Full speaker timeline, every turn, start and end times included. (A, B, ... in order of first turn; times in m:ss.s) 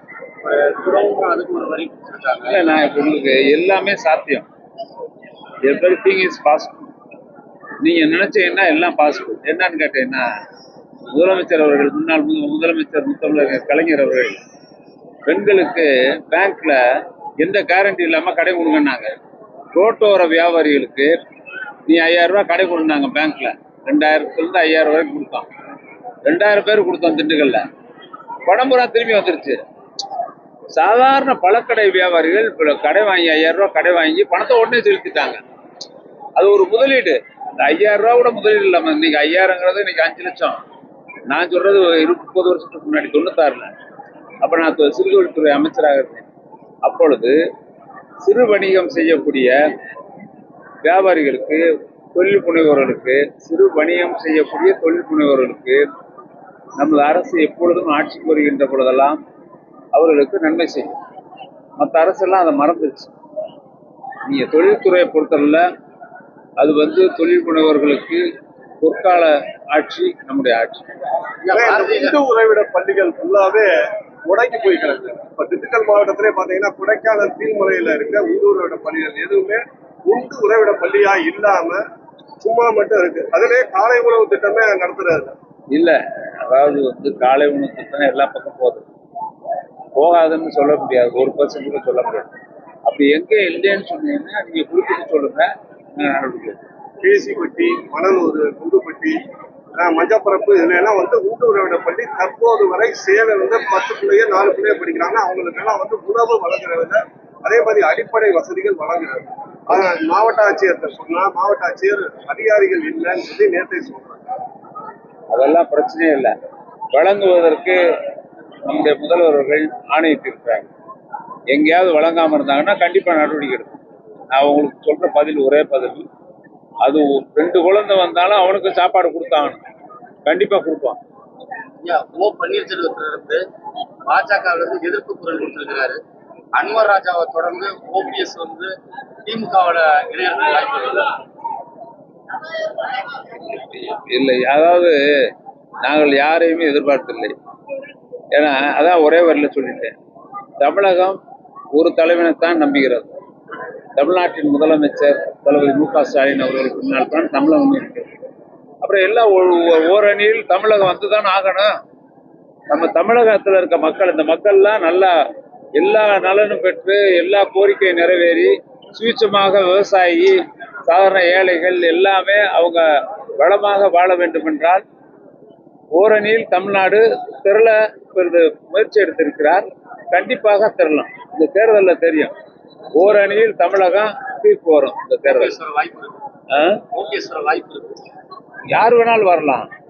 0:00.4-0:02.6 A
0:02.5-0:04.5 B
0:05.6-0:06.9 B
0:07.8-0:10.3 B
0:11.1-0:14.4 B
0:15.3-0:16.8 B
0:17.4-0:19.1 B
0:19.7-0:21.1 B
0:21.9-0:25.5 B
0:26.2-0:27.6 B
0:28.5-0:29.6 B
0:30.7-0:35.4 B
0:36.4-0:40.6 B
0:41.3-0:43.7 B
0:44.4-0:46.3 B
0:46.8-0:47.4 B
0:48.2-0:49.6 B
0:50.8-0:55.8 B
0:56.8-0:59.2 B
0:59.9-1:00.9 B
1:01.8-1:03.1 B
1:04.2-1:05.6 B
1:06.6-1:08.2 B
1:08.8-1:10.9 B
1:11.4-1:12.2 A
1:11.5-1:13.7 C
1:14.3-1:21.8 C
1:22.4-1:25.3 C
1:25.7-1:28.8 B
1:30.0-1:32.3 B
1:32.9-1:36.6 B
1:37.0-1:39.2 C
1:39.8-1:54.2 C
1:55.3-1:56.3 B
1:56.9-1:57.8 B
1:58.6-2:00.7 B
2:01.5-2:03.8 B
2:04.3-2:06.0 B
2:06.8-2:09.6 B
2:10.2-2:11.0 B
2:11.8-2:13.4 A
2:14.1-2:16.0 A
2:16.6-2:18.7 A
2:19.3-2:21.2 A
2:23.4-2:25.0 B
2:25.8-2:27.3 B
2:28.3-2:29.9 B
2:30.6-2:31.2 B
2:31.7-2:33.1 B
2:34.0-2:38.1 B
2:38.8-2:41.7 B
2:42.7-2:45.2 B
2:45.8-2:54.8 B
2:55.9-3:02.3 B
3:02.9-3:05.6 B
3:05.2-3:06.2 A
3:06.5-3:06.8 B
3:06.9-3:08.0 A
3:08.7-3:09.7 B